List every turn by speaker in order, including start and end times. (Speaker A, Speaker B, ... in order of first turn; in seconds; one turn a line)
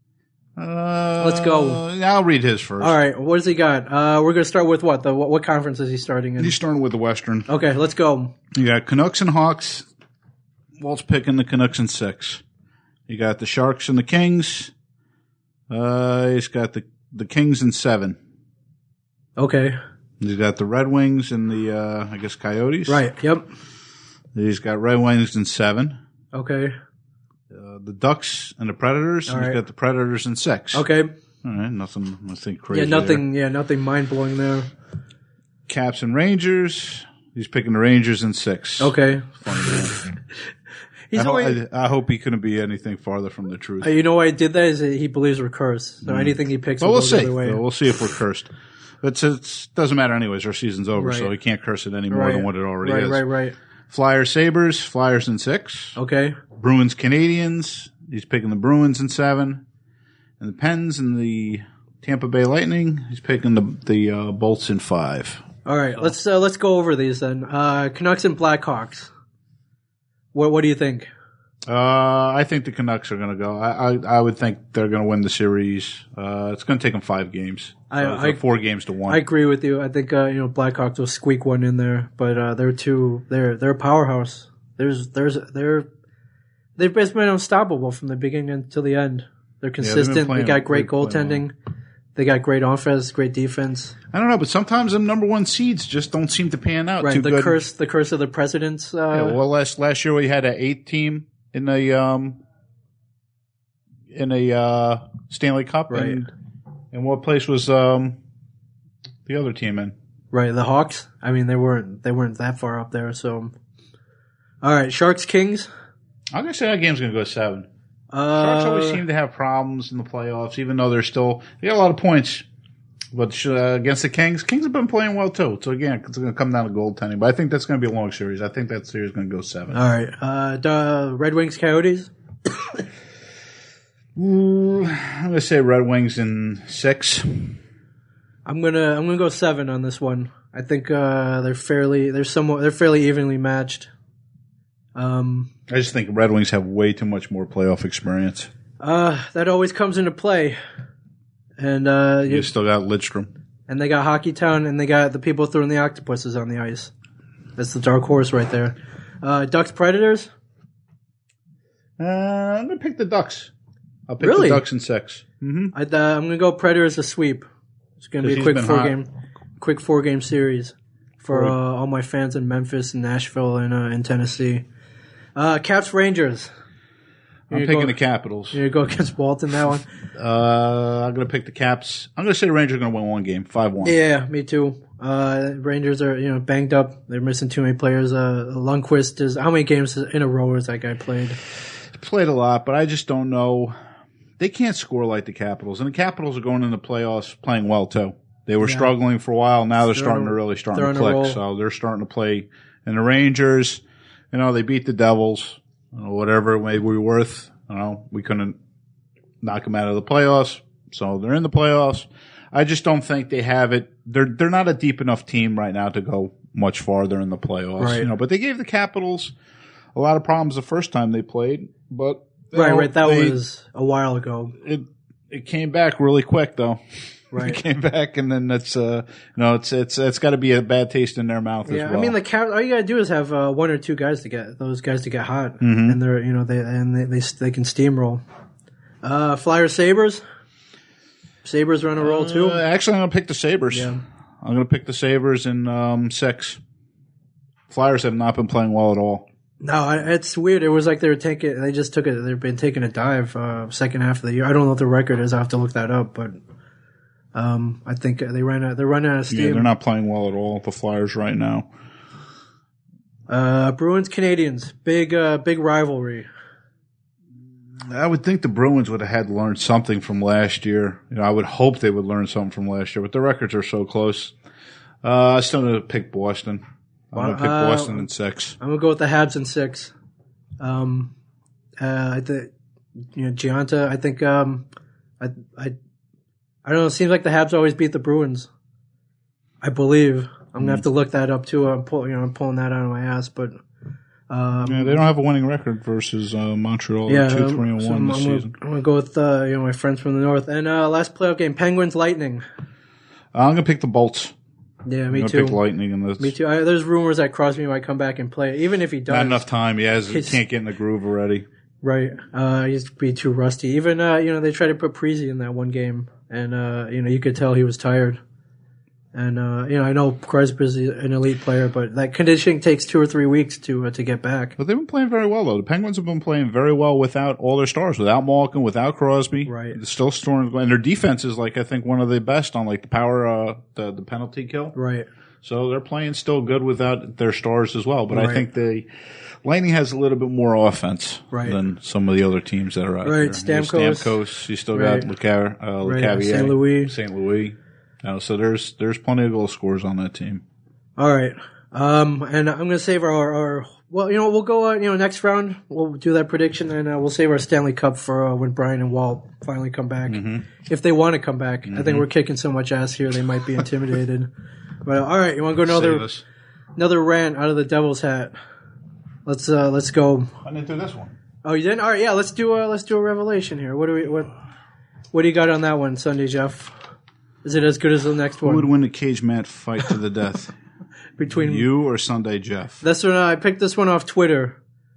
Speaker A: 0.6-3.0
Speaker B: 1.2-1.8
Speaker B: 2.8-6.6
Speaker A: 6.4-7.5
Speaker B: 7.5-8.3
Speaker A: 8.5-9.9
Speaker A: 10.8-12.4
Speaker A: 13.1-14.7
Speaker A: 15.7-18.2
Speaker B: 19.4-19.8
Speaker A: 20.2-23.0
Speaker B: 22.9-23.5
Speaker A: 24.3-26.0
Speaker B: 26.3-26.8
Speaker A: 27.5-30.9
Speaker B: 29.3-29.6
Speaker B: 30.7-31.1
Speaker A: 31.4-33.2
Speaker B: 32.7-34.7
Speaker A: 35.7-40.0
Speaker B: 38.8-39.4
Speaker B: 41.1-41.6
Speaker A: 41.1-43.9
Speaker B: 43.8-47.6
Speaker A: 46.1-48.5
Speaker A: 49.0-53.3
Speaker B: 51.0-51.3
Speaker B: 52.1-53.6
Speaker A: 53.9-56.0
Speaker B: 56.0-56.4
Speaker A: 56.6-59.6
Speaker A: 60.4-66.1
Speaker B: 65.7-69.1
Speaker B: 70.3-71.1
Speaker A: 71.7-79.2
Speaker B: 77.9-78.4
Speaker B: 79.1-85.9
Speaker B: 86.8-91.5
Speaker A: 89.8-91.4
Speaker B: 92.2-94.0
Speaker A: 94.1-97.6
Speaker B: 97.0-99.4
Speaker A: 99.1-102.4
Speaker A: 104.1-106.3
Speaker B: 105.9-106.2
Speaker A: 106.9-108.2
Speaker A: 109.3-110.0
Speaker B: 110.3-113.5
Speaker B: 114.6-115.7
Speaker A: 116.3-117.7
Speaker B: 118.1-119.0
Speaker A: 118.3-122.5
Speaker A: 123.1-129.8
Speaker B: 129.7-132.1
Speaker A: 134.2-137.6
Speaker B: 138.5-143.9
Speaker B: 144.9-145.5
Speaker A: 145.7-148.5
Speaker B: 148.8-150.6
Speaker B: 151.6-152.5
Speaker A: 152.3-153.3
Speaker B: 153.7-156.9
Speaker B: 157.6-160.3
Speaker A: 162.0-163.5
Speaker A: 164.1-165.7
Speaker B: 164.2-164.6
Speaker B: 165.7-167.5
Speaker B: 168.0-174.7
Speaker A: 168.2-169.0
Speaker A: 171.3-171.6
Speaker B: 175.3-176.5
Speaker A: 177.5-178.6
Speaker B: 177.5-178.0
Speaker B: 178.5-179.8
Speaker A: 180.2-184.0
Speaker B: 183.8-191.4
Speaker A: 191.9-193.8
Speaker A: 194.4-208.6
Speaker B: 198.6-198.9
Speaker B: 199.9-201.4
Speaker A: 209.4-219.3
Speaker B: 217.8-218.1
Speaker A: 219.9-223.4
Speaker B: 222.5-224.6
Speaker A: 224.6-226.8
Speaker B: 227.3-227.6
Speaker A: 227.3-232.2
Speaker B: 231.7-238.2
Speaker A: 235.6-236.0
Speaker B: 239.0-240.2
Speaker B: 241.4-242.6
Speaker A: 242.0-246.6
Speaker B: 243.7-244.0
Speaker A: 247.7-249.3
Speaker B: 249.6-256.4
Speaker B: 257.4-259.7
Speaker A: 259.3-261.7
Speaker B: 263.3-266.3
Speaker A: 267.8-274.3
Speaker A: 275.0-278.6
Speaker B: 277.1-278.1
Speaker B: 278.6-279.9
Speaker B: 280.6-281.1
Speaker B: 281.8-282.5
Speaker B: 283.1-284.6
Speaker B: 285.2-285.8
Speaker B: 286.6-288.5
Speaker B: 289.6-293.6
Speaker B: 294.3-295.1
Speaker A: 294.7-298.5
Speaker B: 297.1-302.4
Speaker A: 303.3-304.3
Speaker B: 304.9-305.6
Speaker A: 305.1-306.4
Speaker B: 306.2-309.5
Speaker A: 309.1-311.5
Speaker B: 310.1-310.4
Speaker B: 311.8-318.2
Speaker B: 319.1-324.6
Speaker A: 324.6-334.8
Speaker B: 329.5-329.8
Speaker B: 334.8-335.1
Speaker A: 335.4-338.9
Speaker B: 338.1-338.4
Speaker A: 339.4-350.4
Speaker B: 341.3-341.6
Speaker B: 343.0-344.1
Speaker B: 344.7-345.1
Speaker B: 345.8-346.9
Speaker B: 351.0-364.3
Speaker A: 360.1-360.5
Speaker A: 361.7-362.1
Speaker B: 364.9-366.1
Speaker A: 365.6-366.2
Speaker B: 366.8-368.4
Speaker B: 369.3-370.3
Speaker A: 370.4-371.1
Speaker B: 371.4-374.3
Speaker B: 375.1-376.8
Speaker B: 377.4-378.7
Speaker A: 378.4-380.6
Speaker B: 381.2-381.7
Speaker A: 381.3-382.8
Speaker B: 382.8-384.6